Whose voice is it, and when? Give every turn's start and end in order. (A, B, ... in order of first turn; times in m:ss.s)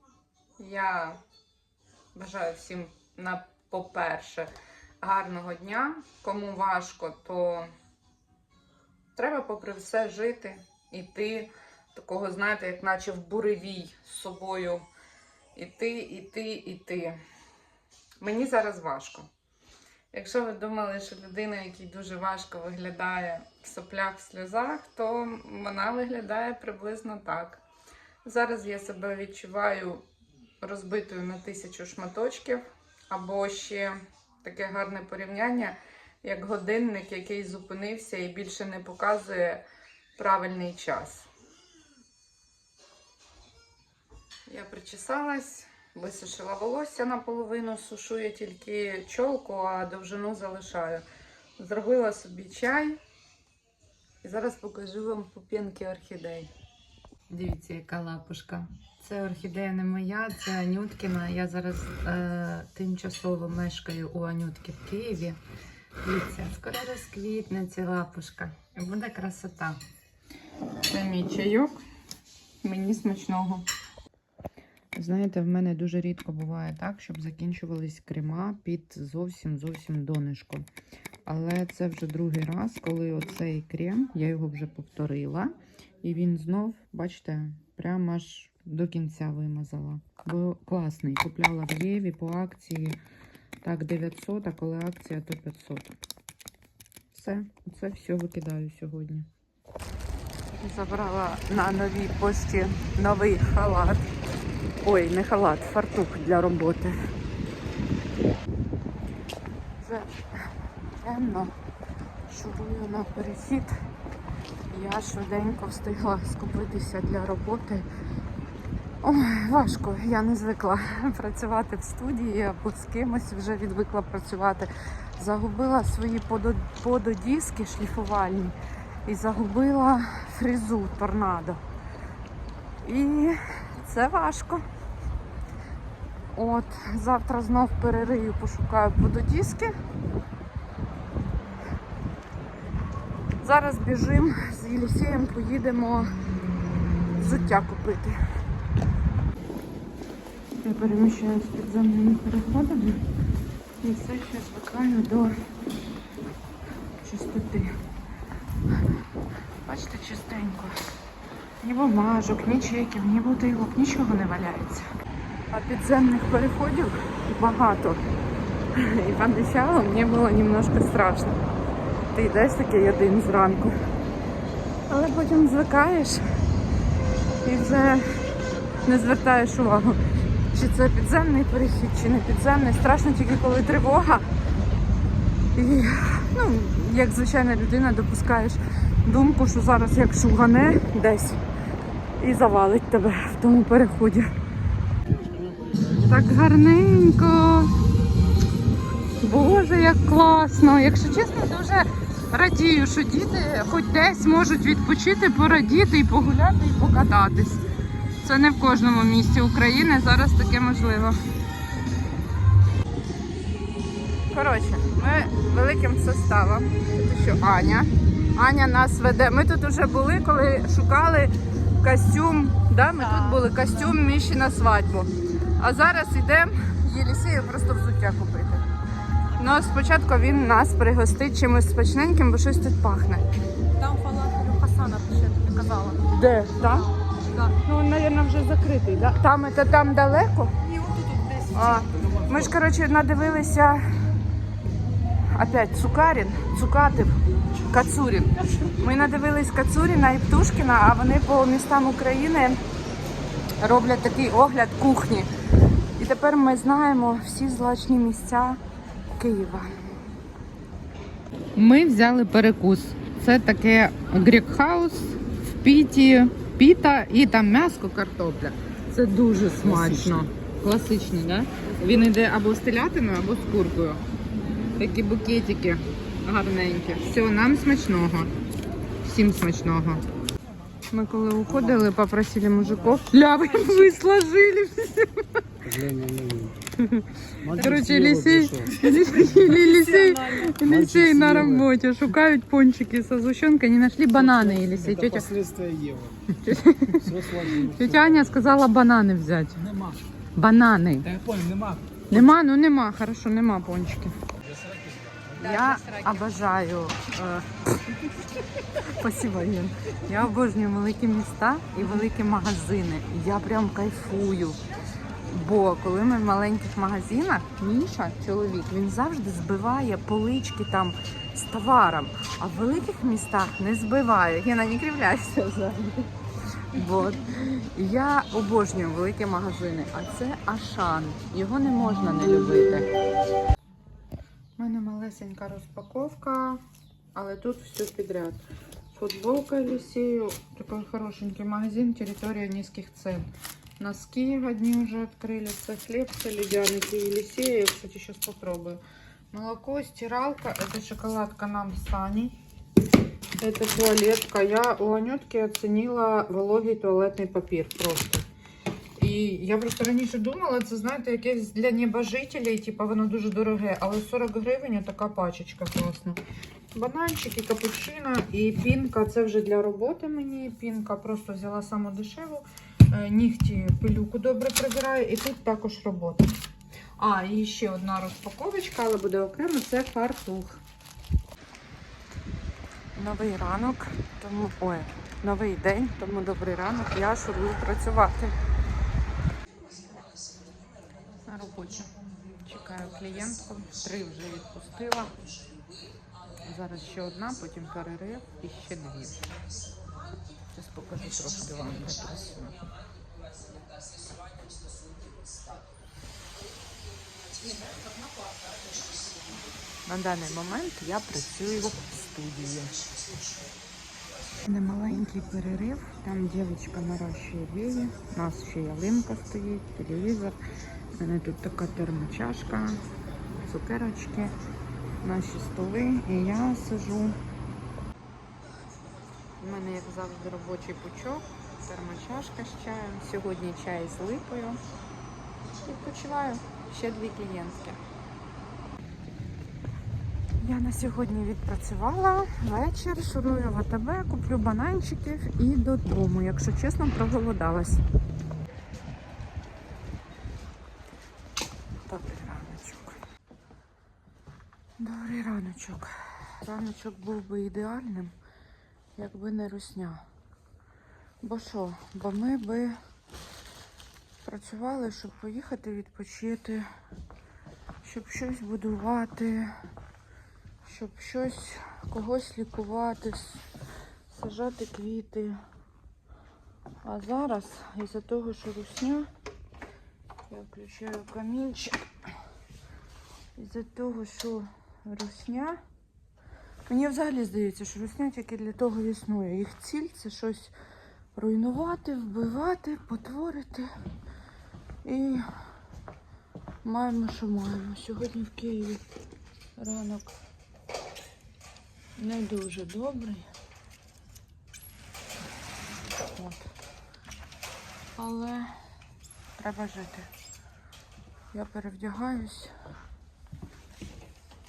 0:00.6-0:01.2 A
0:02.1-0:07.7 A
0:09.1-0:14.8 A
0:15.5-0:17.2 A
0:18.2-0:19.3 A
0:20.1-0:27.6 A
0:28.2-0:30.0 A
0:30.6-0:39.6 A
0:40.2-0:41.3 A
0:44.5-0:51.0 A
0:51.6-0:53.0 A
0:54.2-0:56.5 A
0:57.3-1:05.4 A
1:06.0-1:09.8 A
1:10.9-1:11.8 A
1:12.6-1:13.6 A
1:14.9-1:20.6 A
1:21.2-1:33.0 A
1:33.6-1:35.9 A
1:37.1-1:39.3 A
1:40.6-1:44.1 A
1:44.8-1:47.0 A
1:49.8-1:51.5 A
1:52.3-1:53.8 A
1:54.7-1:57.9 A
1:59.0-2:11.6 A
2:12.8-2:14.6 A
2:16.3-2:19.8 A
2:23.4-2:26.2 A
2:27.1-2:28.2 A
2:30.6-2:33.0 A
2:33.8-2:35.3 A
2:37.0-2:37.7 A
2:39.6-2:40.8 A
2:41.6-2:44.9 A
2:45.5-2:48.0 A
2:48.7-2:51.4 A
2:52.1-2:53.7 A
2:54.9-2:56.2 A
2:57.4-2:58.2 A
2:58.8-3:00.0 A
3:00.5-3:04.2 A
3:05.5-3:11.4 A
3:12.2-3:14.3 A
3:15.9-3:17.7 A
3:19.2-3:27.6 A
3:28.2-3:31.2 A
3:34.3-3:48.6 A
3:49.3-3:53.2 A
3:53.8-4:00.7 A
3:53.9-3:56.1 B
3:56.6-3:57.6 B
4:00.7-4:02.2 B
4:01.5-4:03.8 A
4:05.3-4:12.6 A
4:13.6-4:15.3 A
4:16.0-4:18.6 A
4:19.2-4:19.8 A
4:21.5-4:34.0 A
4:29.6-4:30.3 C
4:34.7-4:38.3 A
4:39.0-4:40.0 A
4:40.9-4:45.3 A
4:45.6-4:46.6 C
4:46.8-4:55.3 A
4:47.4-4:49.6 C
4:50.0-4:50.2 B
4:50.6-4:51.7 C
4:54.2-4:56.3 C
4:56.3-4:59.8 A
4:56.9-4:58.4 C
5:00.3-5:01.2 A
5:01.1-5:02.0 C
5:02.1-5:04.2 A
5:04.6-5:05.4 C
5:05.4-5:14.6 A
5:05.7-5:06.0 B
5:15.3-5:26.1 A
5:26.7-5:32.9 A
5:34.6-5:36.6 A
5:37.1-5:38.4 A
5:38.9-5:43.3 A
5:43.8-5:52.4 A
5:53.4-5:58.2 A
5:59.0-6:06.2 A
6:06.7-6:16.3 A
6:17.0-6:20.6 A
6:22.9-6:28.4 A
6:31.2-6:31.9 A
6:32.4-6:35.1 A
6:36.4-6:39.3 A
6:40.5-6:42.6 A
6:49.9-6:52.8 A
6:54.4-7:00.4 A
7:01.0-7:02.8 A
7:03.4-7:04.3 A
7:05.0-7:07.2 A
7:09.4-7:14.6 A
7:15.6-7:17.8 A
7:20.4-7:27.8 A
7:31.9-7:33.0 A
7:34.8-7:38.1 A
7:39.0-7:40.0 A
7:41.2-7:42.8 A
7:44.2-7:46.7 A
7:47.8-7:49.6 A
7:50.6-7:53.4 A
7:54.1-7:55.4 A
7:56.8-7:59.1 A
8:00.3-8:01.8 A
8:03.3-8:05.6 A
8:06.6-8:10.5 A
8:11.1-8:13.7 A
8:14.8-8:15.2 A
8:16.6-8:18.8 A
8:19.6-8:20.1 A
8:22.0-8:23.3 A
8:25.9-8:26.5 A
8:27.9-8:28.6 A
8:29.4-8:30.1 A
8:31.3-8:32.5 A